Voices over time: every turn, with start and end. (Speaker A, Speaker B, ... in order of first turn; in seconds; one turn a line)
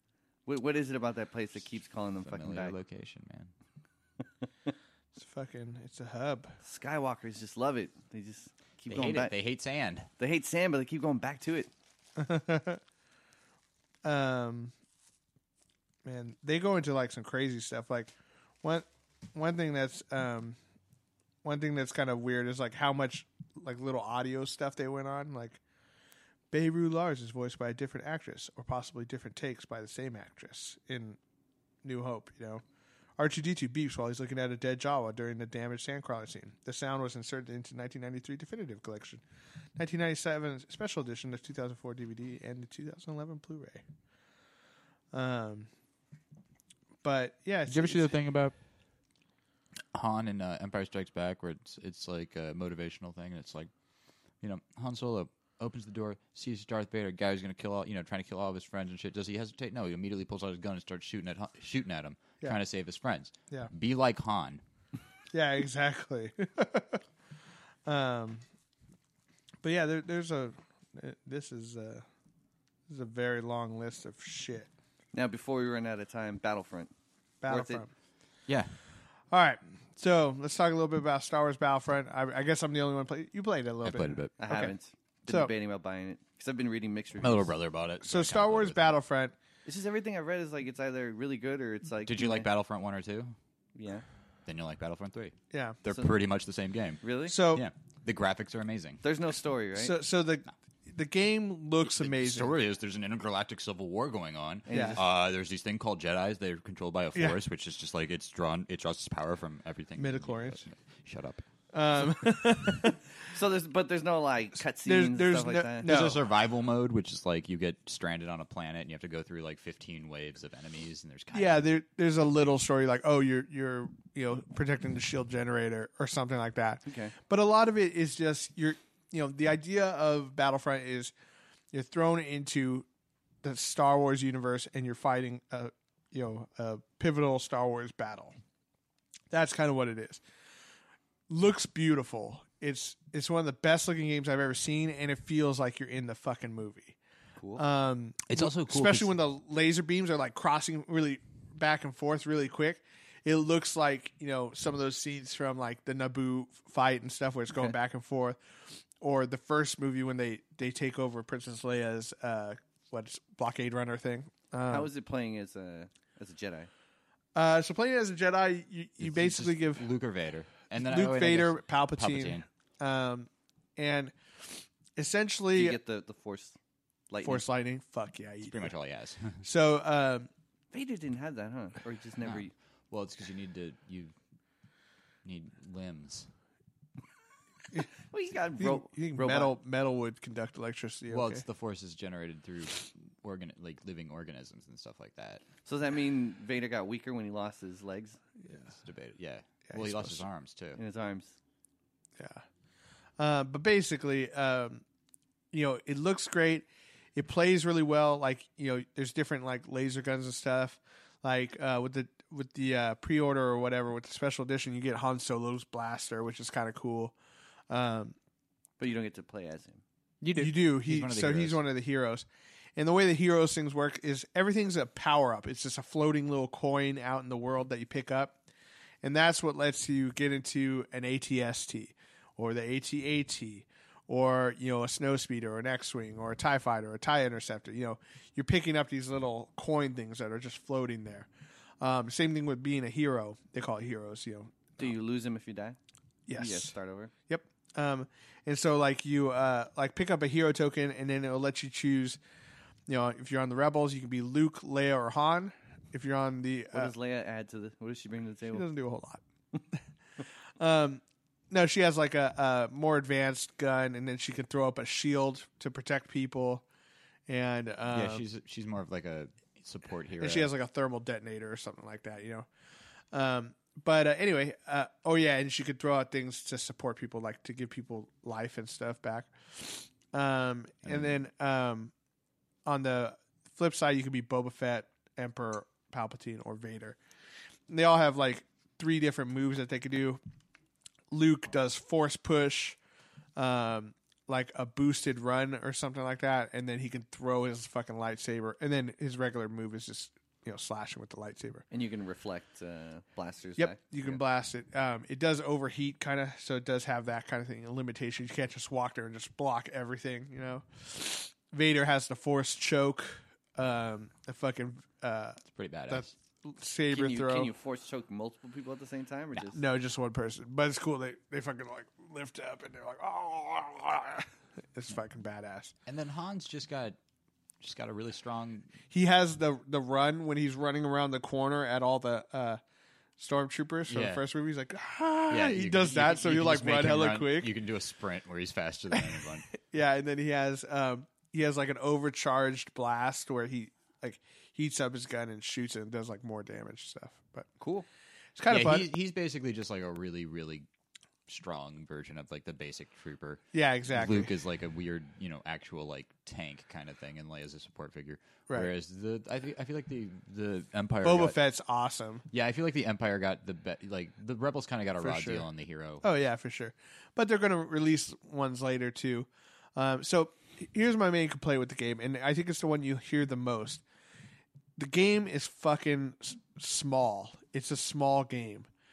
Speaker A: 0.5-2.8
Speaker B: 2.2-3.5
Speaker C: 5.2-6.6
Speaker A: 6.6-9.3
Speaker B: 8.9-10.1
Speaker A: 10.2-11.7
Speaker C: 12.2-12.8
Speaker C: 14.1-14.7
Speaker C: 16.1-20.6
Speaker C: 21.4-25.6
Speaker C: 26.5-31.2
Speaker C: 31.8-32.6
Speaker C: 33.2-39.2
Speaker C: 39.8-43.8
Speaker C: 45.1-45.7
Speaker C: 47.0-48.2
Speaker B: 47.7-48.5
Speaker B: 49.9-53.7
Speaker B: 54.4-64.6
Speaker C: 65.3-67.0
Speaker C: 67.9-68.4
Speaker C: 69.6-72.1
Speaker C: 72.9-74.7
Speaker A: 75.1-76.9
Speaker C: 77.4-77.9
Speaker A: 77.5-77.8
Speaker B: 78.5-78.8
Speaker C: 79.3-84.7
Speaker B: 83.8-84.3
Speaker A: 84.4-87.5
Speaker B: 87.2-88.9
Speaker C: 88.0-89.3
Speaker A: 89.7-92.5
Speaker B: 92.1-93.4
Speaker A: 93.8-94.0
Speaker B: 94.5-99.0
Speaker C: 95.5-95.8
Speaker A: 97.0-97.4
Speaker C: 97.3-97.7
Speaker A: 99.0-100.0
Speaker C: 99.8-102.5
Speaker B: 101.8-111.4
Speaker A: 104.7-105.0
Speaker C: 104.7-105.0
Speaker C: 110.0-110.6
Speaker C: 111.7-113.0
Speaker A: 113.3-115.9
Speaker C: 114.8-116.2
Speaker B: 115.8-121.7
Speaker C: 121.3-131.1
Speaker A: 126.9-127.2
Speaker C: 131.7-132.9
Speaker C: 133.4-138.3
Speaker C: 139.3-140.2
Speaker C: 141.3-147.0
Speaker A: 147.4-147.6
Speaker C: 147.6-164.9
Speaker B: 148.3-149.2
Speaker A: 164.7-166.7
Speaker C: 167.3-169.8
Speaker B: 169.0-172.4
Speaker C: 170.8-175.8
Speaker A: 175.5-176.6
Speaker A: 177.1-177.4
Speaker C: 177.2-178.7
Speaker B: 178.4-179.4
Speaker C: 179.4-180.3
Speaker A: 180.7-182.5
Speaker B: 182.2-184.1
Speaker B: 185.2-186.3
Speaker A: 188.1-189.6
Speaker C: 188.6-191.4
Speaker B: 191.1-195.4
Speaker A: 195.7-198.2
Speaker B: 198.7-200.8
Speaker C: 199.7-200.2
Speaker A: 200.8-201.4
Speaker C: 202.2-202.4
Speaker C: 203.2-204.8
Speaker C: 205.5-217.2
Speaker C: 217.7-218.2
Speaker A: 218.8-219.8
Speaker B: 220.2-221.6
Speaker C: 220.4-228.4
Speaker C: 229.0-241.3
Speaker C: 241.8-244.9
Speaker A: 244.8-245.8
Speaker C: 246.3-246.8
Speaker A: 246.3-247.1
Speaker C: 247.3-252.2
Speaker C: 252.9-256.9
Speaker A: 256.7-258.7
Speaker C: 258.5-259.2
Speaker C: 260.6-266.7
Speaker C: 267.3-268.2
Speaker B: 267.9-270.5
Speaker C: 270.2-272.5
Speaker C: 273.1-281.9
Speaker C: 282.6-287.0
Speaker C: 287.7-290.2
Speaker C: 291.1-292.8
Speaker C: 293.4-301.6
Speaker A: 301.7-304.2
Speaker C: 303.6-317.5
Speaker B: 315.5-316.1
Speaker A: 316.9-319.6
Speaker C: 319.5-325.7
Speaker B: 325.9-327.0
Speaker B: 327.6-328.7
Speaker C: 328.9-332.6
Speaker C: 333.2-337.5
Speaker B: 333.9-334.2
Speaker B: 335.3-339.5
Speaker C: 339.0-347.5
Speaker A: 347.6-347.9
Speaker C: 348.4-348.9
Speaker B: 348.5-350.7
Speaker B: 351.3-361.4
Speaker C: 353.5-354.3
Speaker C: 361.0-362.2
Speaker B: 362.3-366.1
Speaker C: 365.0-365.5
Speaker C: 366.0-373.8
Speaker C: 374.8-378.7